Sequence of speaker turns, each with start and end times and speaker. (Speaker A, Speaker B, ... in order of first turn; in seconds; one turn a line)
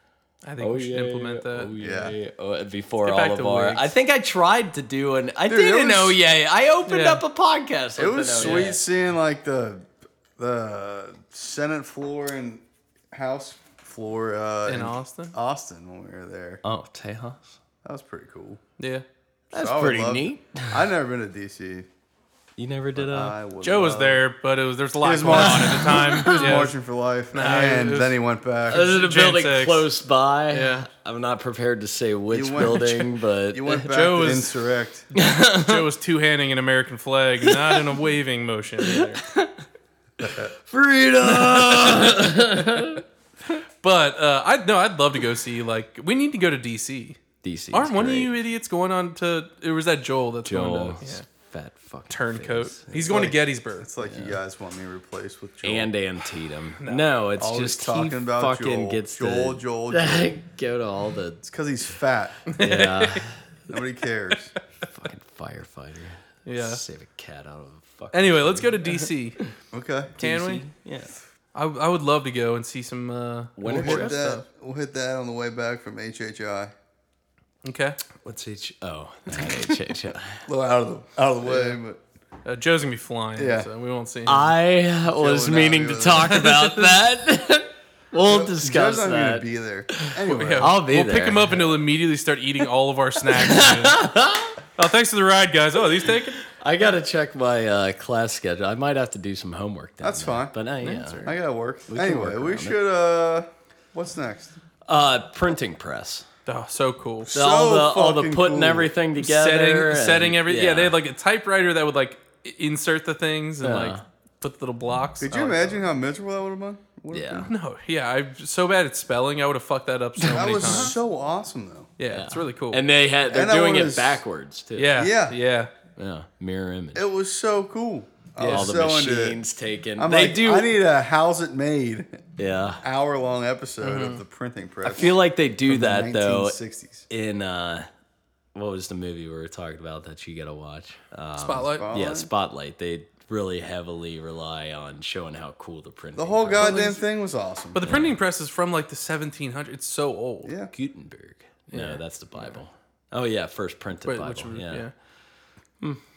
Speaker A: 0.4-1.7
Speaker B: 0.6-8.8
Speaker C: 1.8-2.1
Speaker A: 3.0-3.9
Speaker C: 5.5-6.2
Speaker A: 6.9-7.2
Speaker C: 8.0-16.6
Speaker A: 8.4-8.8
Speaker A: 14.7-15.3
Speaker B: 16.6-17.6
Speaker C: 17.8-18.6
Speaker A: 18.8-19.1
Speaker C: 19.5-21.9
Speaker B: 19.5-20.8
Speaker B: 22.6-23.4
Speaker C: 22.9-24.2
Speaker A: 23.6-26.8
Speaker C: 25.0-28.9
Speaker B: 25.3-26.6
Speaker A: 27.3-28.1
Speaker A: 28.7-29.9
Speaker B: 28.7-33.9
Speaker A: 30.5-30.9
Speaker C: 32.3-35.1
Speaker A: 33.9-34.5
Speaker A: 35.1-39.2
Speaker B: 35.1-35.9
Speaker B: 37.4-37.8
Speaker B: 38.8-39.6
Speaker C: 40.2-40.5
Speaker B: 40.6-43.0
Speaker A: 41.2-42.6
Speaker A: 43.8-47.2
Speaker B: 47.4-48.3
Speaker A: 47.7-51.2
Speaker B: 50.4-53.3
Speaker A: 52.1-53.9
Speaker C: 53.1-55.9
Speaker B: 54.0-54.4
Speaker B: 55.6-61.4
Speaker A: 56.8-57.1
Speaker C: 57.4-60.3
Speaker C: 61.4-62.5
Speaker A: 62.5-63.2
Speaker B: 62.6-63.5
Speaker C: 63.7-64.5
Speaker B: 64.9-69.5
Speaker A: 66.5-66.8
Speaker A: 68.1-69.4
Speaker C: 69.7-70.1
Speaker B: 70.2-71.1
Speaker A: 70.2-70.6
Speaker A: 71.5-74.4
Speaker B: 73.6-74.3
Speaker C: 73.6-76.7
Speaker A: 77.6-78.0
Speaker B: 78.2-80.4
Speaker C: 80.5-82.0
Speaker A: 81.5-81.8
Speaker A: 82.4-84.5
Speaker C: 83.4-83.7
Speaker B: 84.3-91.8
Speaker C: 85.1-86.4
Speaker A: 86.3-87.0
Speaker C: 88.2-90.7
Speaker A: 90.2-94.1
Speaker B: 93.3-94.6
Speaker A: 94.8-96.4
Speaker B: 96.5-101.3
Speaker C: 100.0-100.6
Speaker A: 100.8-101.3
Speaker C: 101.2-104.6
Speaker B: 101.9-102.8
Speaker B: 104.9-106.3
Speaker A: 106.5-107.3
Speaker C: 107.2-108.9
Speaker B: 107.3-110.9
Speaker A: 109.2-115.8
Speaker B: 113.6-114.0
Speaker C: 115.2-117.5
Speaker B: 117.1-117.5
Speaker A: 117.5-121.0
Speaker B: 120.2-120.9
Speaker C: 120.3-121.9
Speaker A: 122.0-122.8
Speaker B: 122.1-125.0
Speaker C: 123.3-124.2
Speaker A: 124.8-125.7
Speaker C: 124.9-125.4
Speaker B: 126.0-127.1
Speaker C: 126.9-129.4
Speaker A: 128.4-128.8
Speaker B: 128.4-130.8
Speaker C: 130.0-132.2
Speaker B: 132.4-132.8
Speaker C: 132.8-137.1
Speaker A: 133.8-134.2
Speaker B: 134.8-136.6
Speaker B: 137.1-137.9
Speaker B: 138.6-146.8
Speaker A: 141.4-141.9
Speaker C: 141.7-142.3
Speaker C: 146.2-147.8
Speaker A: 146.6-147.0
Speaker A: 147.7-150.5
Speaker B: 147.8-148.2
Speaker C: 150.4-150.7
Speaker B: 150.7-154.9
Speaker A: 151.7-152.6
Speaker A: 154.1-154.9